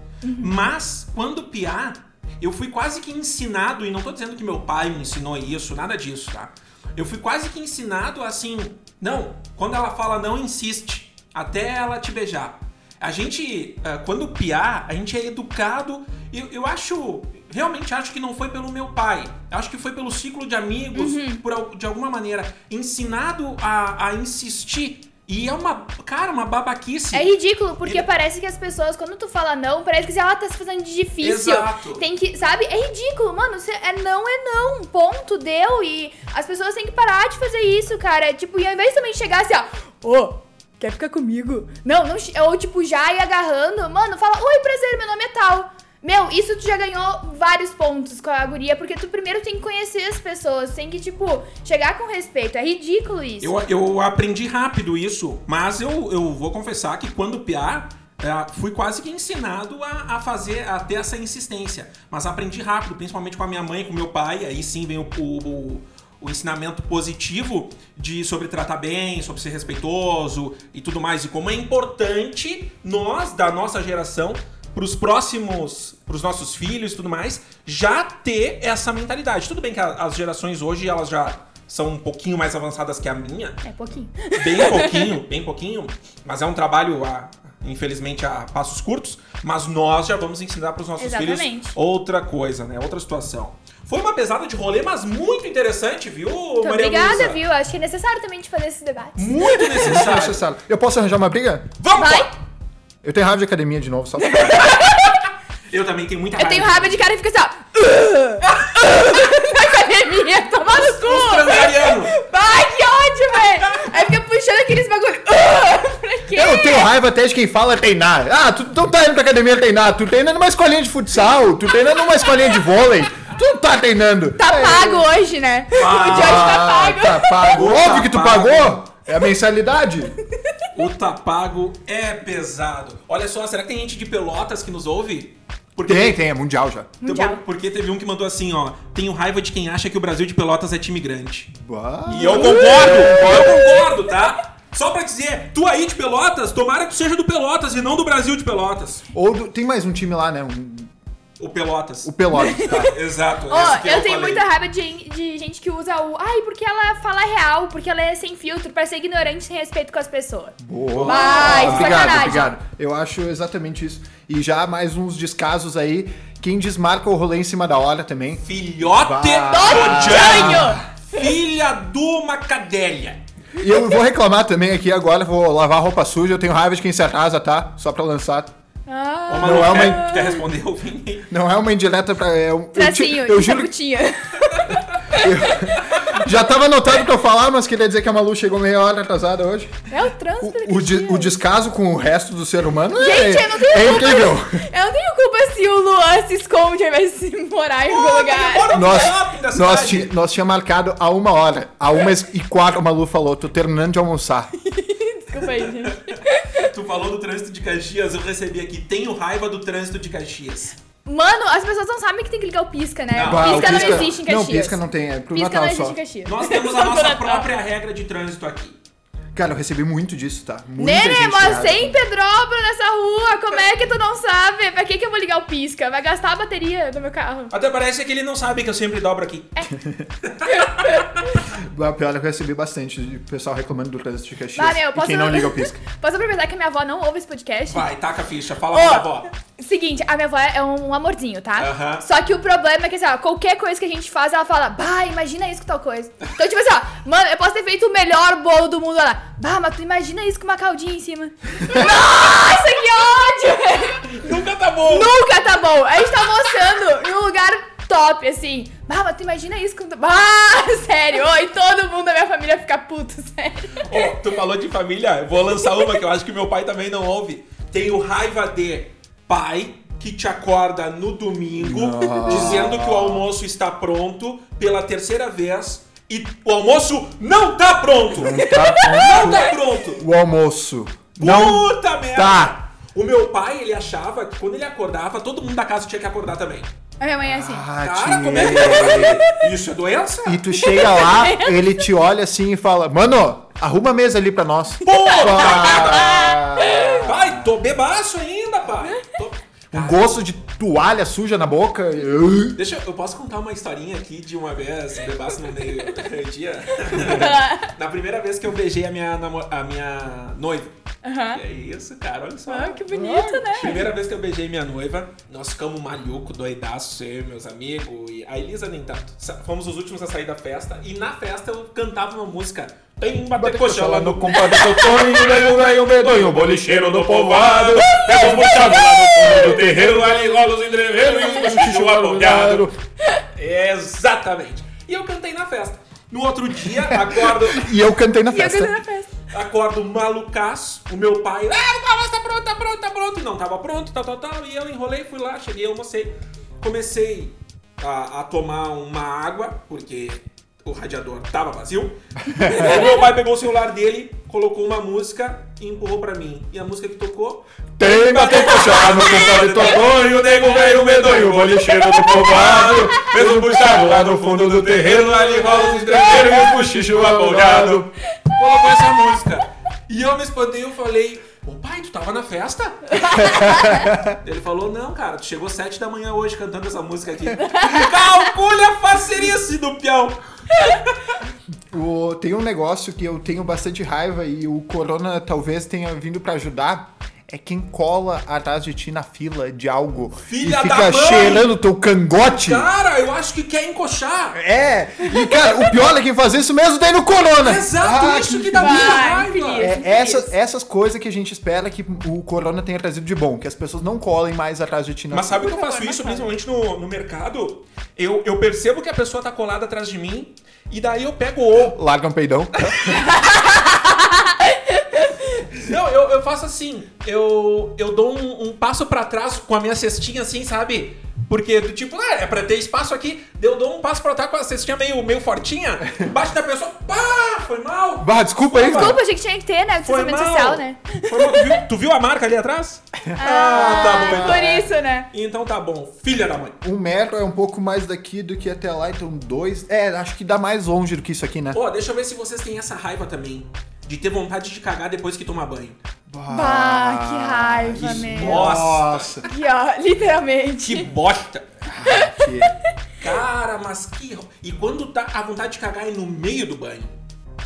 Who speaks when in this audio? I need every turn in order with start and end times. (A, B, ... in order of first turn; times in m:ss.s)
0:00.2-0:00.5 A
0:00.4-0:27.3 B
0:20.9-0:21.4 A
0:27.1-0:53.5 A
0:31.2-0:32.0 B
0:53.4-1:23.6 B
1:23.6-1:25.2 A
1:24.3-1:37.4 B
1:31.0-1:31.8 A
1:36.6-1:39.9 A
1:39.2-1:40.4 B
1:39.8-1:41.7 C
1:41.8-1:42.3 B
1:41.9-1:42.3 A
1:43.0-1:44.6 C
1:44.2-1:45.2 A
1:45.7-1:47.0 B
1:46.4-1:56.9 A
1:50.7-1:52.1 B
1:56.3-2:05.1 C
2:02.1-2:02.6 A
2:04.4-2:07.6 A
2:05.7-2:06.7 B
2:05.9-2:10.2 C
2:07.5-2:08.8 B
2:10.7-2:16.2 B
2:15.8-2:16.9 C
2:17.0-2:17.4 A
2:17.0-2:21.5 B
2:21.5-2:23.7 C
2:22.1-2:29.0 B
2:22.2-2:23.9 A
2:29.1-2:30.9 C
2:31.4-2:34.4 B
2:32.0-2:32.9 C
2:32.3-2:32.8 A
2:33.5-2:42.5 A
2:40.6-2:50.8 C
2:40.9-2:42.4 B
2:48.4-2:53.2 B
2:49.5-2:51.3 A
2:53.6-2:58.5 C
2:58.9-3:00.4 A
2:59.3-3:01.3 B
2:59.4-3:00.1 C
3:01.3-3:03.7 C
3:02.7-3:05.7 A
3:05.1-3:09.8 C
3:09.9-3:11.4 A
3:10.4-3:14.6 C
3:13.0-3:19.0 A
3:17.9-3:20.1 B
3:18.7-3:24.5 C
3:24.6-3:26.6 A
3:25.8-3:30.7 B
3:31.0-3:34.8 A
3:33.1-3:34.1 B
3:33.2-3:36.0 C
3:35.3-3:37.5 A
3:36.2-3:38.8 B
3:39.3-3:42.0 C
3:40.8-3:47.5 A
3:47.5-3:49.7 B
3:50.2-3:51.0 B
3:50.4-3:51.3 A
3:51.4-3:55.8 C
3:54.6-3:57.9 A
3:57.7-3:59.3 B
3:58.7-4:14.2 A
4:01.6-4:02.0 B
4:14.0-4:15.1 B
4:14.8-4:24.1 A
4:23.8-4:40.0 B
4:31.6-4:33.2 C
4:38.1-4:42.6 C
4:38.2-4:39.5 A
4:41.2-4:46.7 B
4:47.0-4:47.7 A
4:47.2-4:49.2 C
4:47.8-4:50.6 B
4:48.4-4:49.4 A
4:50.2-4:57.5 C
4:50.6-4:51.7 A
4:54.8-5:00.2 B
4:54.9-4:57.0 A
4:59.7-5:02.6 C
5:02.5-5:10.7 B
5:06.9-5:07.7 A
5:11.0-5:11.4 A
5:11.3-5:12.8 B
5:12.5-5:13.8 A
5:12.9-5:13.8 C
5:13.5-5:32.7 B
5:23.3-5:30.1 C
5:31.0-5:32.7 C
5:33.4-5:37.7 B
5:37.4-5:38.7 C
5:38.3-5:39.1 A
5:39.3-6:21.1 B
5:52.3-5:52.8 C
5:57.8-6:07.9 C
5:58.3-5:58.8 A
6:13.0-6:13.8 A
6:13.2-6:14.1 C
6:17.4-6:17.9 A
6:21.7-6:32.7 C
6:30.2-6:31.5 B
6:32.3-6:34.4 B
6:34.3-6:45.4 C
6:35.1-6:35.5 A
6:37.4-6:39.7 B
6:38.6-6:40.3 A
6:45.1-6:51.8 B
6:45.3-6:46.3 A
6:51.7-6:52.9 C
6:53.0-6:55.1 A
6:55.5-7:09.0 B
7:08.0-7:09.0 C
7:08.5-7:11.6 A
7:09.8-7:16.5 B
7:13.1-7:14.6 C
7:13.2-7:15.1 A
7:16.6-7:21.6 C
7:21.5-7:25.8 B
7:26.1-7:29.2 C
7:26.3-7:28.5 A
7:27.7-7:29.2 B
7:29.2-7:30.9 A
7:30.6-7:31.5 B
7:31.6-7:32.5 C
7:31.8-7:32.4 A
7:33.0-7:37.0 B